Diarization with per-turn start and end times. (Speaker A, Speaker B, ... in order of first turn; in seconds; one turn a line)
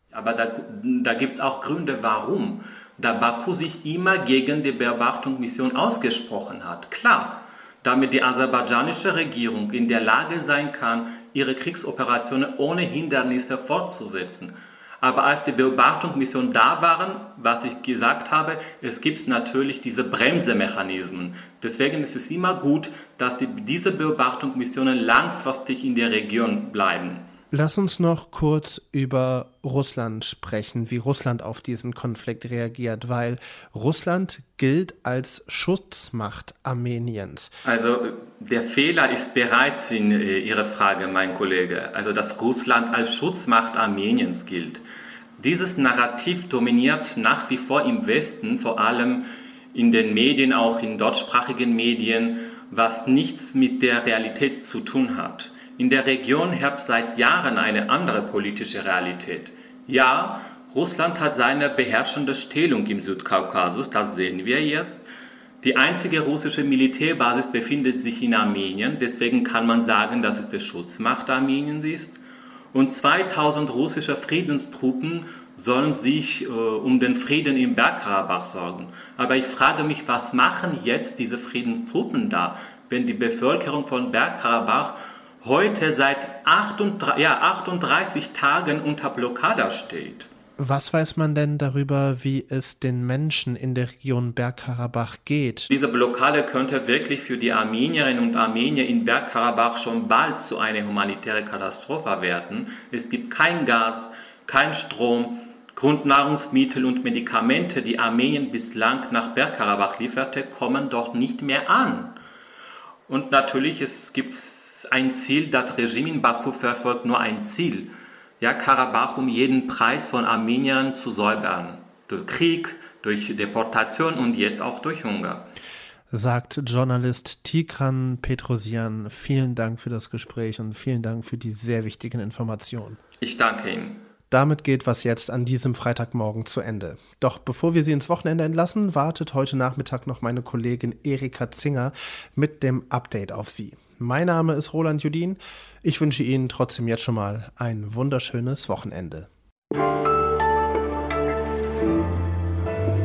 Speaker A: 0.1-27.3
Speaker B: 27.5-37.5
Speaker A: 37.6-44.8
Speaker A: 45.4-65.0
Speaker A: 65.6-72.2
Speaker A: 72.7-90.3
Speaker B: 90.6-95.7
Speaker A: 95.7-112.2
Speaker A: 113.1-125.5
Speaker B: 126.1-133.0
Speaker A: 133.2-134.0
Speaker B: 134.3-149.3